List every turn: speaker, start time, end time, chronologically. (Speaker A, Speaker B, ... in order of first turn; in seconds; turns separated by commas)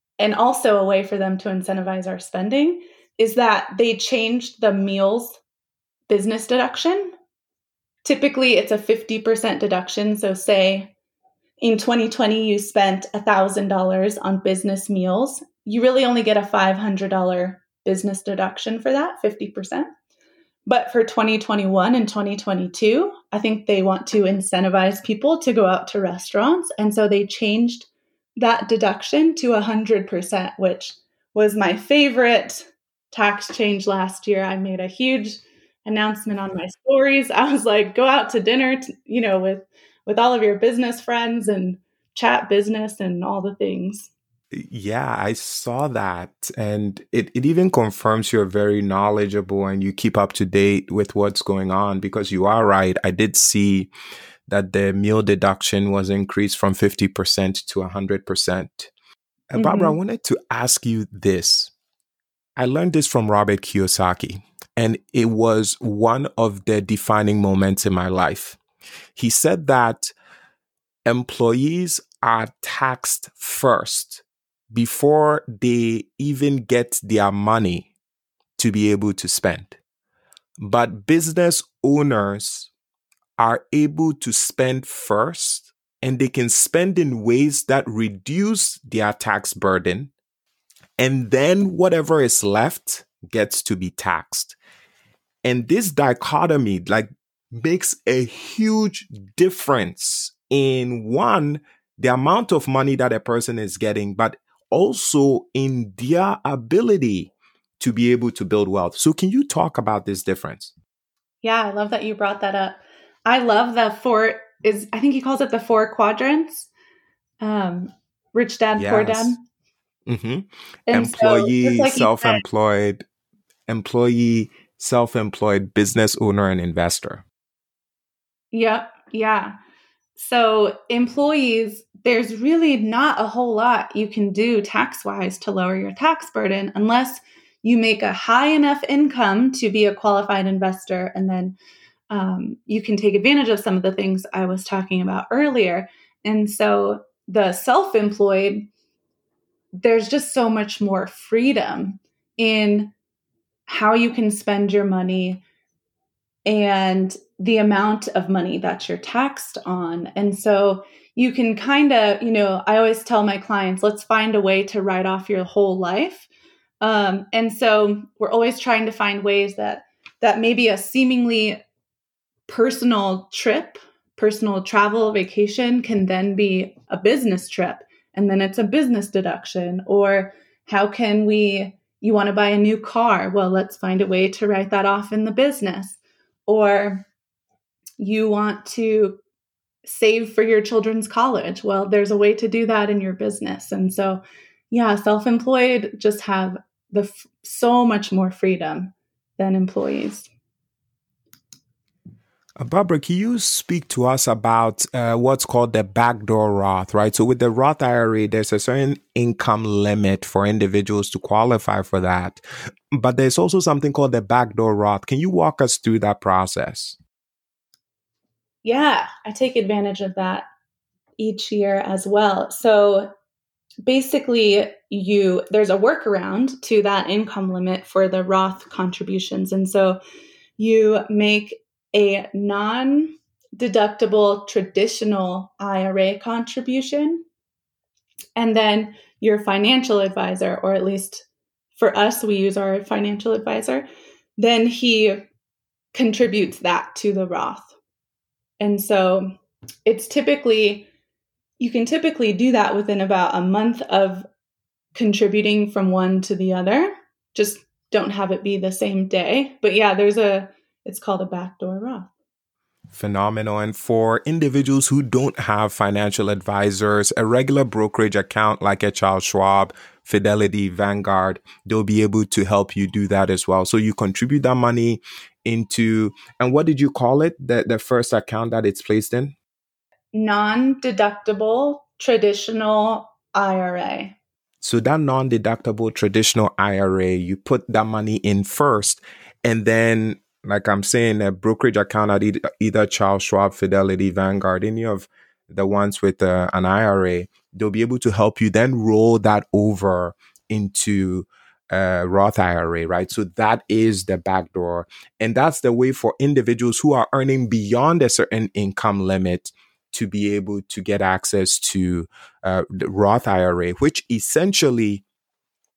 Speaker A: 0.2-5.4, Speaker A: 6.1-7.1, Speaker A: 8.0-10.9, Speaker A: 11.6-19.9, Speaker A: 20.7-44.1, Speaker B: 44.5-53.9, Speaker B: 54.5-58.9, Speaker B: 59.5-61.7, Speaker A: 59.6-60.0, Speaker B: 62.6-68.6, Speaker B: 69.2-70.1, Speaker B: 71.0-77.9, Speaker B: 78.6-79.8, Speaker B: 80.6-82.7, Speaker B: 83.4-90.1, Speaker B: 91.0-94.6, Speaker B: 95.4-110.7, Speaker A: 111.4-116.7, Speaker A: 117.4-119.4, Speaker B: 118.8-119.4, Speaker B: 120.1-123.0, Speaker A: 120.9-122.4, Speaker B: 123.7-127.2, Speaker A: 128.5-129.6, Speaker A: 130.2-141.6, Speaker A: 142.1-148.7, Speaker A: 149.8-152.9, Speaker A: 153.7-155.4, Speaker A: 156.5-166.3, Speaker A: 166.8-171.6, Speaker A: 172.5-187.1, Speaker A: 188.0-189.2, Speaker A: 189.8-200.3, Speaker B: 202.6-217.0, Speaker A: 218.6-220.5, Speaker A: 221.2-223.1, Speaker A: 223.9-230.0, Speaker A: 230.6-237.2, Speaker A: 238.4-245.2, Speaker A: 245.9-247.8, Speaker A: 248.6-249.3, Speaker A: 249.9-250.9, Speaker A: 251.6-254.3, Speaker A: 254.9-262.1, Speaker B: 262.9-279.4, Speaker A: 280.1-284.2, Speaker B: 284.6-315.0